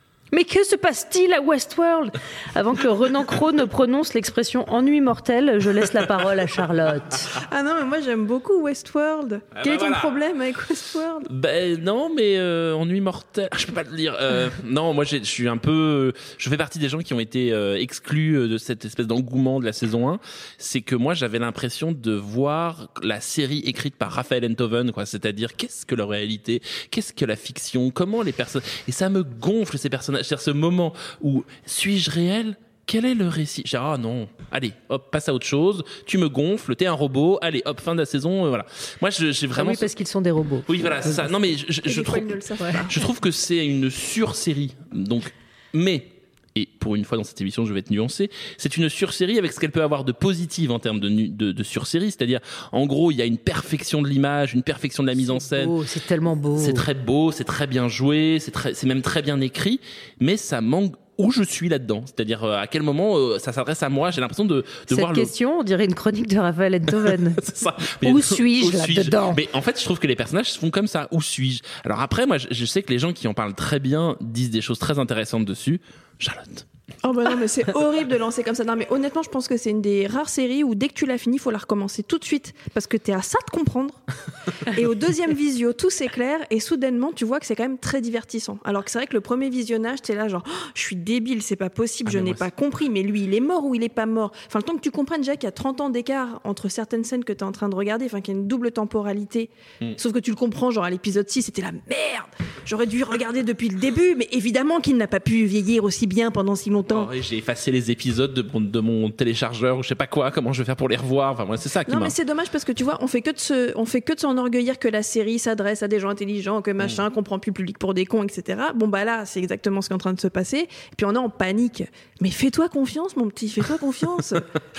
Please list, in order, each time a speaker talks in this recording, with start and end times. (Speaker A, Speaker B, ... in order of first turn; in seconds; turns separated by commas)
Speaker A: 0.3-7.3, Speaker B: 7.4-11.3, Speaker C: 9.5-10.2, Speaker C: 11.3-39.9, Speaker A: 39.5-41.3, Speaker C: 40.7-42.3, Speaker B: 41.9-43.1, Speaker C: 42.9-55.8, Speaker A: 55.2-56.9, Speaker C: 56.6-65.3, Speaker A: 64.9-67.5, Speaker C: 67.0-76.7, Speaker A: 68.0-69.4, Speaker B: 77.0-84.0, Speaker B: 84.7-107.1, Speaker C: 92.0-92.5, Speaker C: 106.9-112.2, Speaker B: 111.9-124.5